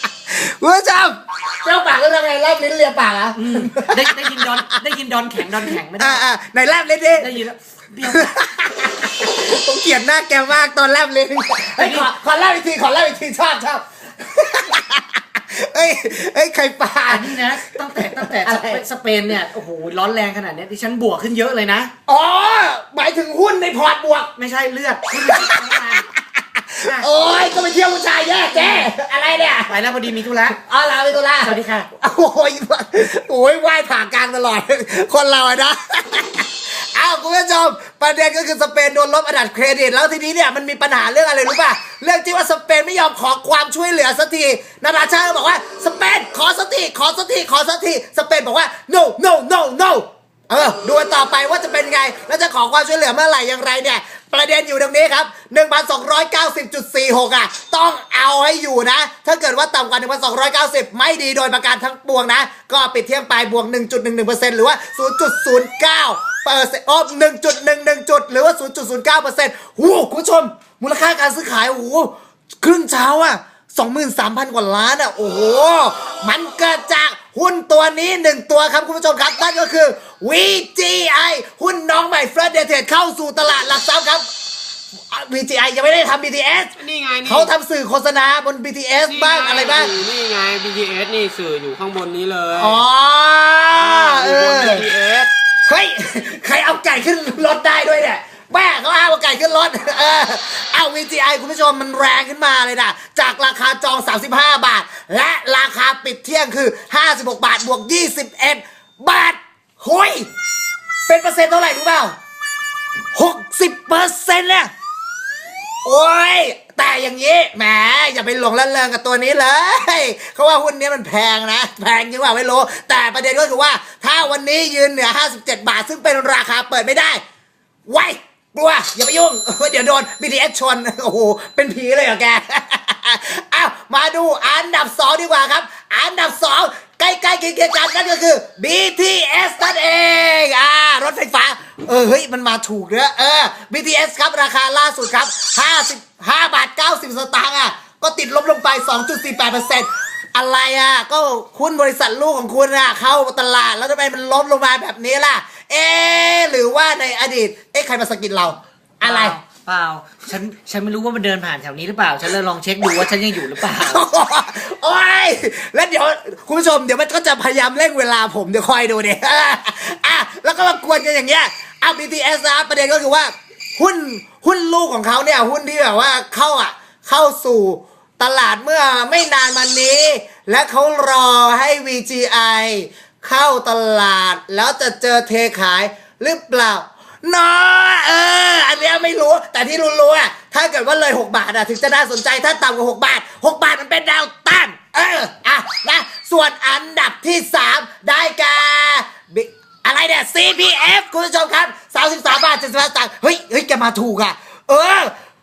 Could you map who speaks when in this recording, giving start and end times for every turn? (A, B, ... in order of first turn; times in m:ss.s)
0:00.3-0:04.8 A
0:03.4-0:06.2 B
0:06.0-0:07.3 A
0:07.1-0:08.3 B
0:08.0-0:18.8 A
0:11.8-0:12.1 B
0:17.1-0:21.9 B
0:22.1-0:24.3 A
0:24.4-0:26.0 B
0:25.2-0:29.8 A
0:26.8-0:27.1 B
0:28.5-0:28.9 B
0:29.7-0:30.6 B
0:30.4-1:24.3 A
0:31.4-0:31.9 B
1:25.1-1:29.9 A
1:26.8-1:27.5 C
1:29.0-1:32.8 C
1:32.6-1:34.8 A
1:33.7-1:35.3 C
1:35.7-1:50.3 A
1:51.0-1:52.1 A
1:53.1-1:54.7 A
1:55.8-2:07.2 A
2:07.9-2:39.4 A
2:39.0-2:44.0 B
2:43.4-3:25.1 A